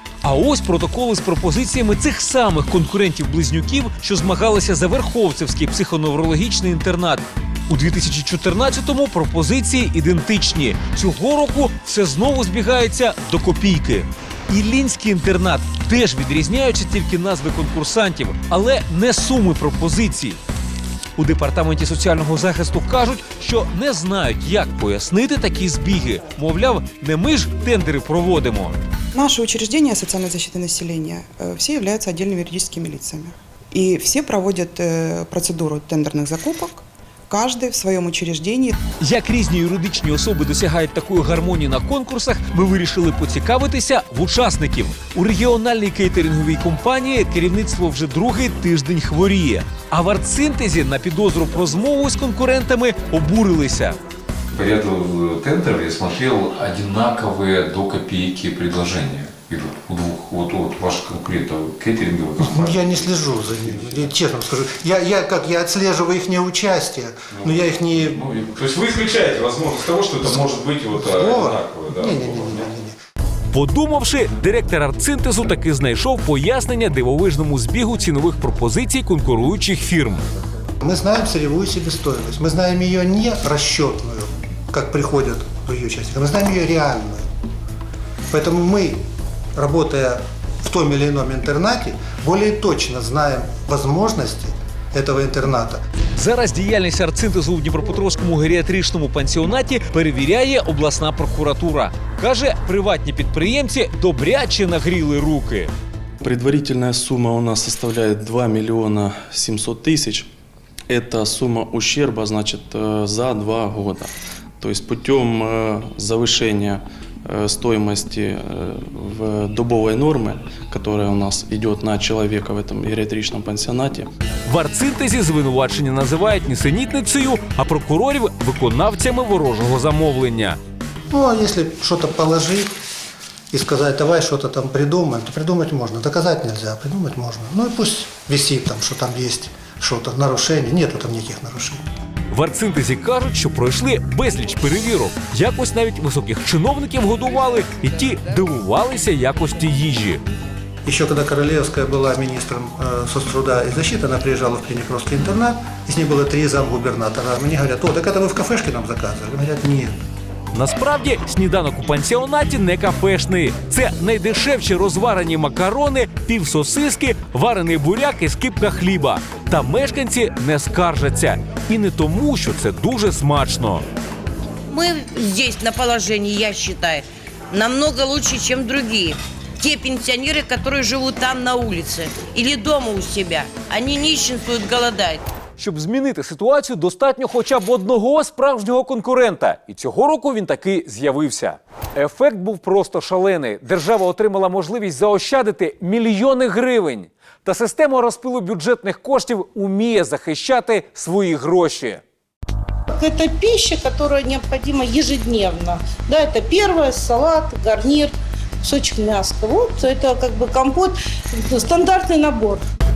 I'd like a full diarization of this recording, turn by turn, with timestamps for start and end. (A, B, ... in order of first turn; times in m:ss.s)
0:00.2-0:20.4 A
0:21.2-0:28.8 A
0:29.1-0:38.8 B
0:39.0-0:54.0 A
0:54.5-1:03.0 C
1:02.4-1:08.2 D
1:08.1-1:12.3 C
1:11.0-1:13.0 D
1:13.5-1:20.3 A
1:20.8-1:27.2 D
1:28.3-1:29.0 D
1:29.6-1:35.8 D
1:36.2-1:45.7 A
1:46.2-1:50.3 E
1:50.9-2:04.1 E
2:04.5-2:10.6 A
2:11.1-2:12.7 D
2:13.5-2:21.8 D
2:22.3-2:30.2 A
2:30.8-2:39.9 D
2:40.5-2:53.8 A
2:54.7-3:05.2 F
3:05.6-3:22.0 A
3:22.9-3:28.1 G
3:28.6-3:32.6 G